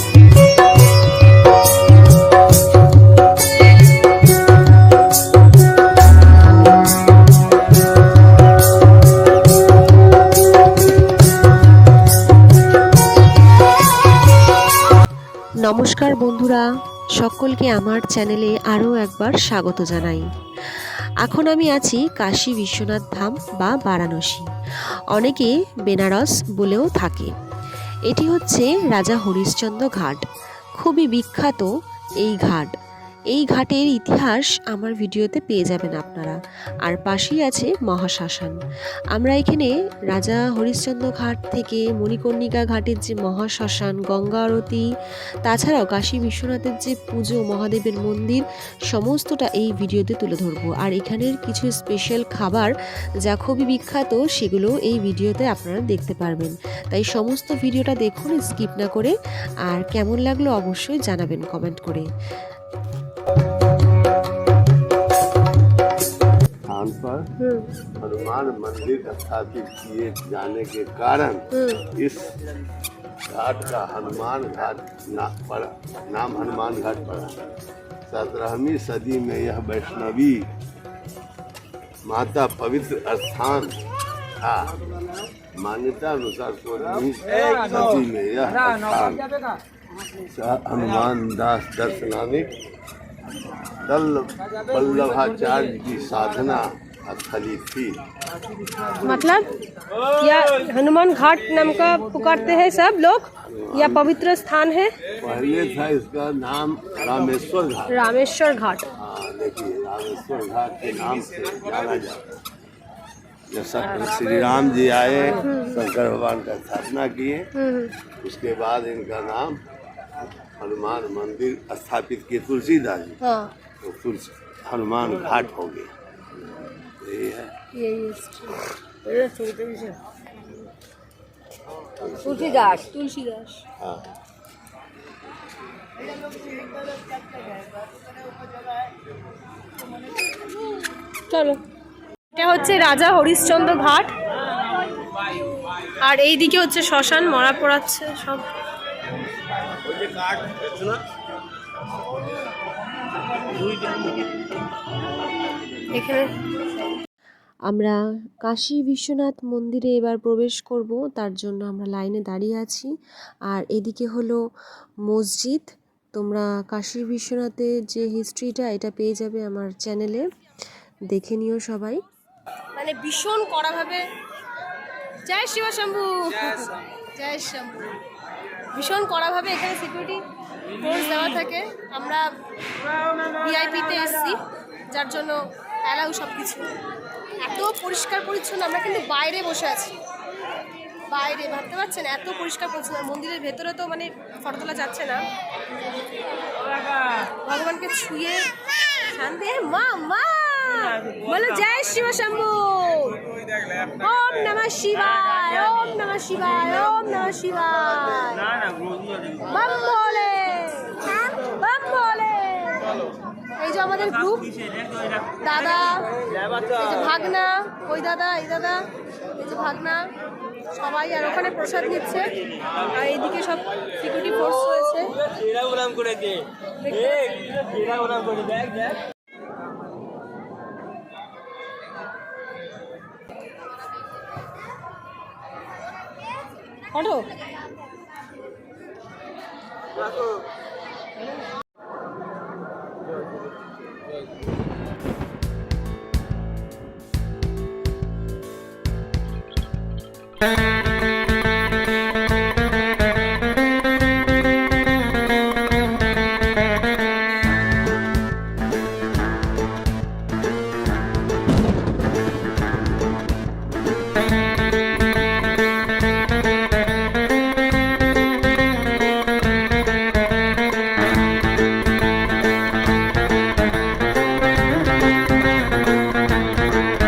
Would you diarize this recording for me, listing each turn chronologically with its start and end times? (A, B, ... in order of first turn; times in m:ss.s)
0:15.6-0:24.5 A
0:25.1-0:27.3 A
0:28.1-0:30.2 A
0:30.8-0:32.7 A
0:33.3-0:38.6 A
0:39.1-0:44.9 A
0:45.4-0:52.7 A
0:53.2-1:02.1 A
1:06.7-1:07.2 B
1:07.4-1:07.7 C
1:08.0-1:12.3 B
1:11.5-1:11.8 C
1:13.3-1:17.4 B
1:18.1-1:20.4 B
1:22.0-1:23.7 B
1:24.4-1:24.7 B
1:25.5-1:29.3 B
1:30.3-1:32.5 B
1:33.8-1:38.0 B
1:39.0-1:39.5 C
1:40.0-1:44.9 C
1:43.5-1:44.1 B
1:45.2-1:47.9 B
1:47.9-1:48.9 C
1:49.0-1:52.3 B
1:53.5-1:57.5 B
1:55.4-1:55.8 C
1:57.5-1:57.9 C
1:58.2-1:59.6 B
2:00.6-2:03.2 B
2:03.2-2:03.5 C
2:03.8-2:05.9 B
2:07.0-2:07.5 B
2:07.7-2:09.8 C
2:12.0-2:12.8 B
2:12.2-2:13.6 C
2:13.8-2:14.1 B
2:21.3-2:21.6 C
2:22.3-2:24.1 C
2:26.0-2:28.4 C
2:35.9-2:36.3 C
2:37.7-2:42.9 A
2:43.5-2:44.4 A
2:45.1-2:50.2 A
2:51.1-2:52.0 A
2:52.8-2:54.1 C
2:55.2-2:58.0 C
2:58.7-3:00.2 C
3:00.7-3:02.3 C
3:03.2-3:04.4 C
3:04.9-3:06.7 C
3:07.4-3:10.0 C
3:11.1-3:15.2 C
3:17.3-3:23.2 C
3:23.7-3:28.6 C
3:29.3-3:33.0 C
3:33.6-3:38.8 C
3:39.3-3:40.1 C
3:40.6-3:45.2 C
3:46.8-3:48.5 C
3:56.9-3:57.3 C